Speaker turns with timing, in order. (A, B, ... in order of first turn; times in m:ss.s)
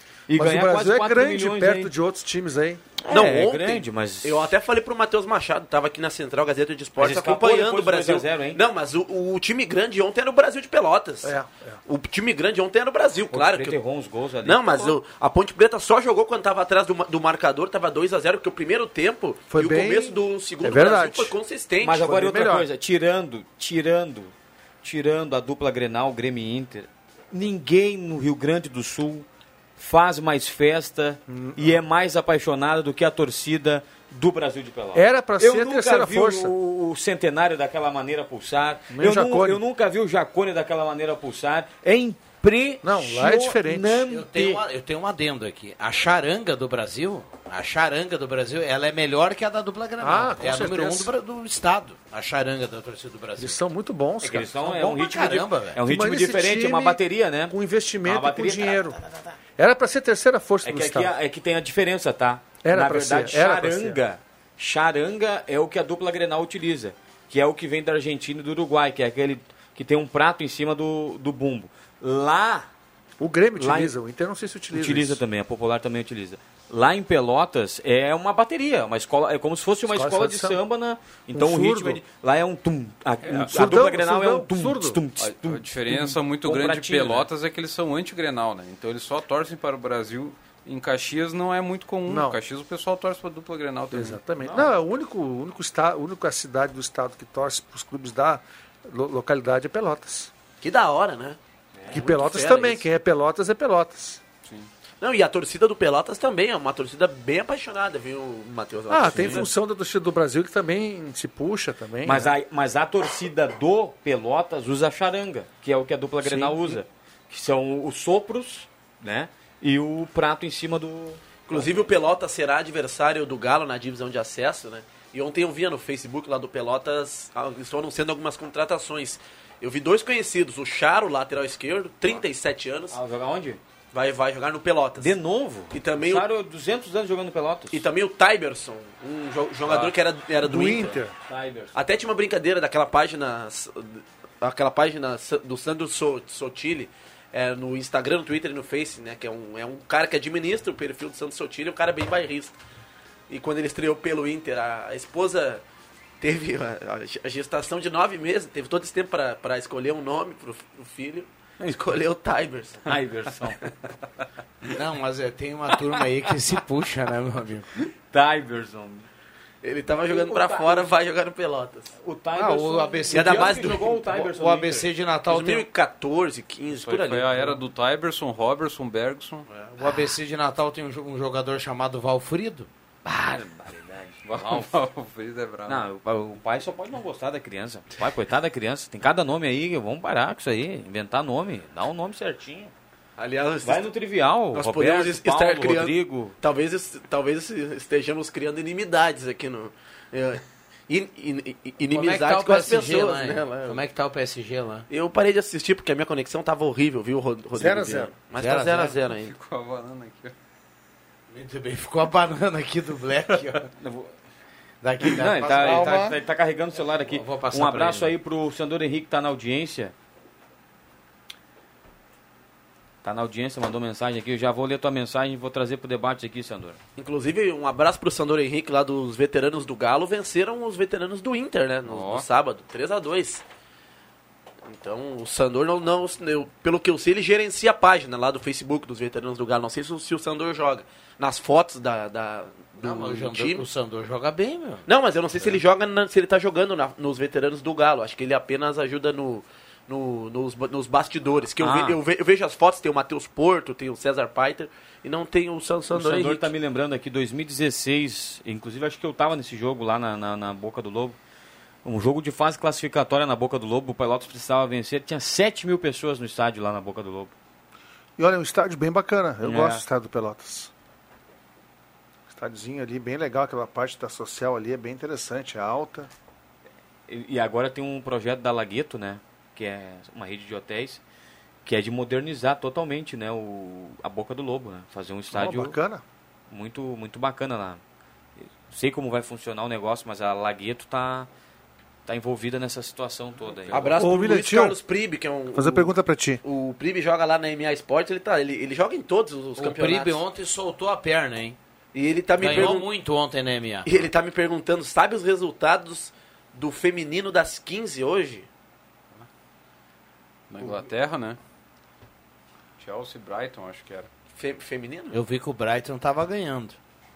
0:00.3-0:01.9 A
0:00.3-0:02.8 B
0:03.1-0:04.5 A
0:03.1-0:13.8 C
0:07.0-0:08.6 A
0:11.2-0:11.8 B
0:13.3-0:15.0 A
0:14.4-0:22.0 C
0:19.5-0:21.3 B
0:21.8-0:29.3 A
0:21.9-0:22.7 B
0:29.8-0:44.6 A
0:31.3-0:31.8 B
0:35.0-0:36.5 B
0:38.9-0:39.6 B
0:42.8-0:44.0 B
0:44.1-0:53.6 D
0:50.0-0:51.1 B
0:53.4-0:54.5 B
0:54.2-0:58.8 A
0:54.6-0:55.8 D
0:55.8-0:59.0 B
0:59.6-1:01.1 B
1:00.6-1:12.7 A
1:02.6-1:04.0 B
1:13.2-1:15.2 B
1:13.6-1:13.9 A
1:14.7-1:27.3 A
1:19.9-1:20.6 B
1:21.3-1:22.0 B
1:23.3-1:25.0 B
1:25.2-1:34.2 E
1:32.1-1:32.4 B
1:33.9-1:40.3 B
1:34.4-1:34.8 A
1:40.6-1:41.4 C
1:41.8-1:42.1 A
1:41.9-1:42.8 C
1:41.9-1:44.2 B
1:45.0-1:49.5 C
1:48.9-1:52.3 B
1:49.1-1:49.4 A
1:52.0-2:01.7 A
1:56.2-1:56.8 B
2:01.5-2:13.0 C
2:12.9-2:13.6 A
2:13.9-2:15.2 C
2:15.0-2:17.8 A
2:15.7-2:16.3 C
2:17.7-2:21.0 C
2:20.4-2:21.1 B
2:21.3-2:21.8 A
2:21.8-2:32.6 C
2:33.3-2:35.6 C
2:36.2-2:42.8 C
2:42.9-2:43.7 A
2:44.7-2:47.7 D
2:48.1-2:49.1 A
2:49.6-2:51.9 C
2:50.1-2:50.9 A
2:52.0-2:54.9 A
2:52.4-2:55.7 D
2:53.1-2:53.9 C
2:55.3-2:57.6 C
2:56.8-2:59.5 E
2:59.5-3:00.0 C
2:59.8-3:02.7 D
3:03.0-3:04.8 A
3:04.2-3:05.8 E
3:05.7-3:12.7 A
3:13.2-3:13.9 C
3:13.6-3:16.3 A
3:14.5-3:23.8 C
3:21.8-3:24.9 D
3:24.9-3:29.4 C
3:27.6-3:28.1 B
3:28.4-3:29.0 D
3:29.1-3:30.4 E
3:31.3-3:33.7 D
3:33.8-3:34.1 A
3:34.8-3:36.0 D
3:35.0-3:39.9 A
3:35.6-3:36.2 B
3:36.8-3:38.2 D
3:43.0-3:46.8 A
3:47.0-3:53.4 C
3:51.9-3:52.3 E
3:54.7-4:03.7 C
4:02.8-4:04.9 D
4:04.9-4:16.5 C
4:11.6-4:12.0 A
4:15.9-4:21.2 A
4:21.8-4:27.3 A
4:28.2-4:30.7 B
4:29.4-4:29.8 A
4:32.3-4:36.1 B
4:37.1-4:41.0 A
4:41.7-4:45.8 A
4:45.3-4:46.0 B
4:46.5-4:47.8 A
4:48.4-4:51.3 A
4:52.1-4:53.9 A
4:53.7-5:00.2 C
4:53.9-4:54.8 B
4:55.6-4:56.4 B
4:59.6-5:01.6 D
5:01.9-5:02.9 C
5:02.4-5:04.1 D
5:03.9-5:08.5 C
5:10.5-5:11.4 E
5:12.8-5:14.1 E
5:14.4-5:15.2 C
5:15.1-5:16.8 D